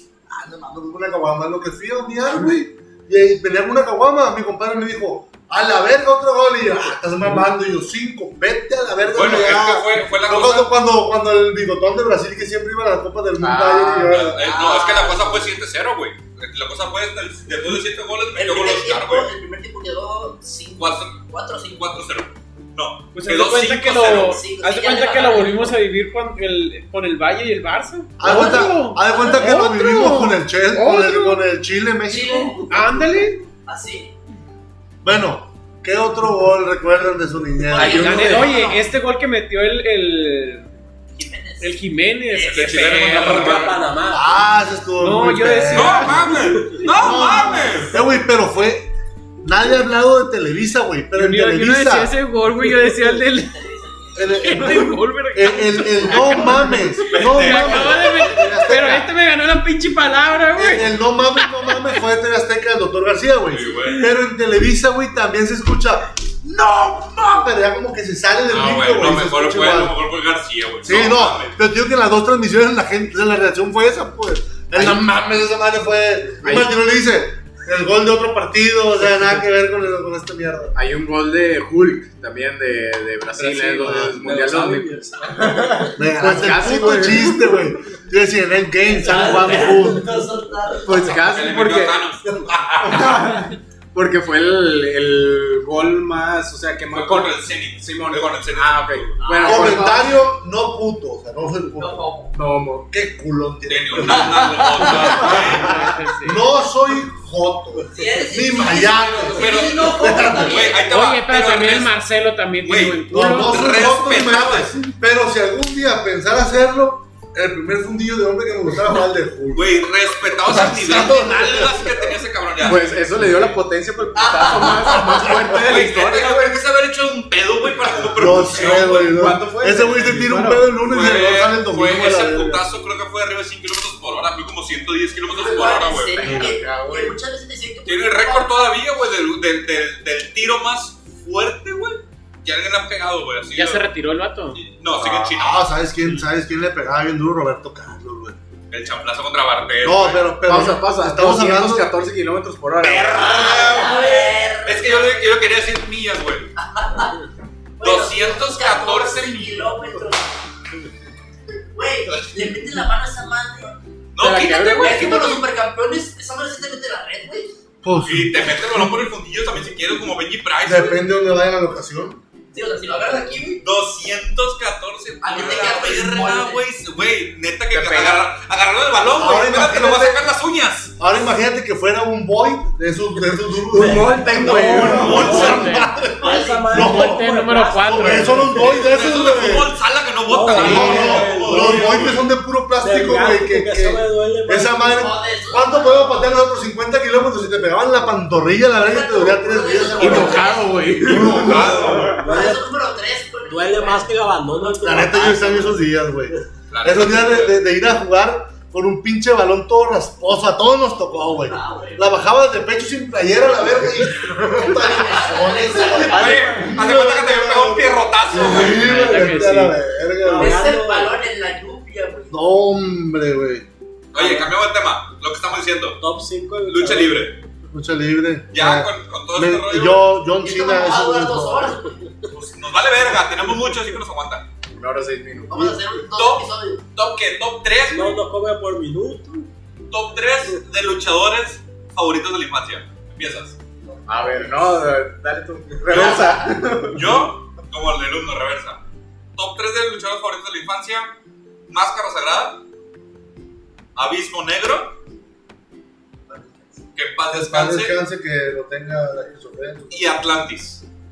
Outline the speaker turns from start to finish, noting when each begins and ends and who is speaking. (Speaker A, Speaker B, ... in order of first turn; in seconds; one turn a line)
Speaker A: 0.3-14.4
Speaker B: 9.1-10.7
Speaker C: 13.4-14.3
Speaker B: 14.1-19.3
Speaker D: 14.4-15.5
Speaker D: 18.3-22.2
Speaker B: 20.8-24.4
Speaker E: 23.1-31.4
Speaker D: 24.0-25.8
Speaker A: 28.2-33.1
Speaker D: 29.1-29.5
Speaker D: 32.1-32.7
Speaker E: 32.7-33.4
Speaker D: 33.6-34.1
Speaker A: 35.0-38.3
Speaker D: 37.7-38.8
Speaker C: 37.7-38.6
Speaker E: 37.9-40.7
Speaker D: 41.1-41.8
Speaker E: 41.6-43.7
Speaker D: 42.3-43.7
Speaker B: 42.5-43.8
Speaker F: 43.1-44.3
Speaker A: 44.1-52.1
Speaker E: 45.0-47.0
Speaker B: 45.7-48.0
Speaker E: 51.1-53.6
Speaker D: 52.9-54.4
Speaker A: 54.1-59.1
Speaker E: 54.3-61.8
Speaker B: 57.1-58.2
Speaker A: 60.5-70.0
Speaker B: 63.5-64.0
Speaker B: 68.5-71.6
Speaker A: 70.8-80.7
Speaker C: 76.4-76.7
Speaker C: 80.7-87.5
Speaker A: 83.8-84.2
Speaker F: 84.2-86.0
Speaker A: 86.0-90.2
Speaker D: 88.8-91.2
Speaker C: 90.8-100.2
Speaker B: 91.0-93.3
Speaker A: 92.9-93.3
Speaker B: 96.9-99.2
Speaker D: 99.2-99.9
Speaker A: 99.4-102.0
Speaker D: 101.8-102.3
Speaker C: 102.3-102.9
Speaker A: 102.9-110.7
Speaker B: 103.7-105.9
Speaker D: 104.1-105.2
Speaker E: 105.4-106.5
Speaker D: 107.9-110.9
Speaker B: 109.2-112.0
Speaker E: 110.8-113.8
Speaker B: 112.6-114.8
Speaker A: 113.1-119.9
Speaker B: 119.5-122.9
Speaker A: 120.4-122.2
Speaker C: 122.6-126.5
Speaker A: 124.6-125.6
Speaker B: 125.6-129.1
Speaker A: 128.1-132.6
Speaker C: 128.5-130.7
Speaker B: 130.8-136.4
Speaker D: 135.3-138.7
Speaker C: 136.2-137.2
Speaker A: 136.2-136.5
Speaker B: 137.8-143.8
Speaker E: 143.5-144.6
Speaker B: 144.5-145.7
Speaker C: 145.0-145.3
Speaker A: 145.3-148.4
Speaker B: 148.7-150.3
Speaker A: 149.8-151.9
Speaker C: 150.4-153.4
Speaker B: 152.8-156.5
Speaker D: 153.0-155.5
Speaker D: 156.6-157.2
Speaker D: 157.8-160.4
Speaker B: 157.8-159.7
Speaker D: 161.7-163.8
Speaker B: 164.1-165.4
Speaker C: 164.2-165.2
Speaker D: 164.8-167.5
Speaker A: 167.8-169.0
Speaker B: 168.1-171.0
Speaker A: 170.6-172.2
Speaker D: 172.5-173.6
Speaker B: 173.6-180.9
Speaker D: 175.2-176.6
Speaker C: 177.7-178.3
Speaker A: 179.1-180.2
Speaker A: 181.0-189.8
Speaker C: 183.7-185.4
Speaker E: 184.4-185.9
Speaker F: 184.4-188.9
Speaker B: 184.8-185.7
Speaker D: 186.1-186.8
Speaker E: 186.7-188.8
Speaker B: 188.6-192.3
Speaker F: 190.3-192.2
Speaker A: 190.5-202.1
Speaker E: 190.6-190.9
Speaker F: 192.8-195.0
Speaker D: 194.8-196.2
Speaker D: 198.8-200.8
Speaker C: 199.9-202.2
Speaker B: 201.3-202.2
Speaker F: 202.1-202.7
Speaker D: 202.2-204.1
Speaker F: 203.4-205.8
Speaker A: 204.8-220.6
Speaker B: 206.7-207.6
Speaker D: 211.4-212.0
Speaker D: 214.6-216.6
Speaker B: 215.9-219.1
Speaker E: 218.6-219.8
Speaker F: 220.2-221.2
Speaker D: 220.3-222.4
Speaker A: 222.3-223.7
Speaker B: 224.1-226.0
Speaker F: 224.1-224.5
Speaker F: 226.0-227.3
Speaker B: 226.7-227.4
Speaker A: 227.7-231.8
Speaker B: 228.5-230.1
Speaker D: 230.4-232.0
Speaker B: 232.3-234.4
Speaker C: 234.7-235.8
Speaker D: 235.5-236.8
Speaker B: 236.1-238.2
Speaker F: 237.9-239.5
Speaker B: 239.9-243.6
Speaker C: 244.1-247.2
Speaker B: 245.9-248.8
Speaker B: 249.3-251.1
Speaker B: 251.7-252.6
Speaker B: 253.9-254.9
Speaker A: 256.3-256.8
Speaker B: 256.9-258.0
Speaker A: 257.3-260.3
Speaker B: 259.9-260.8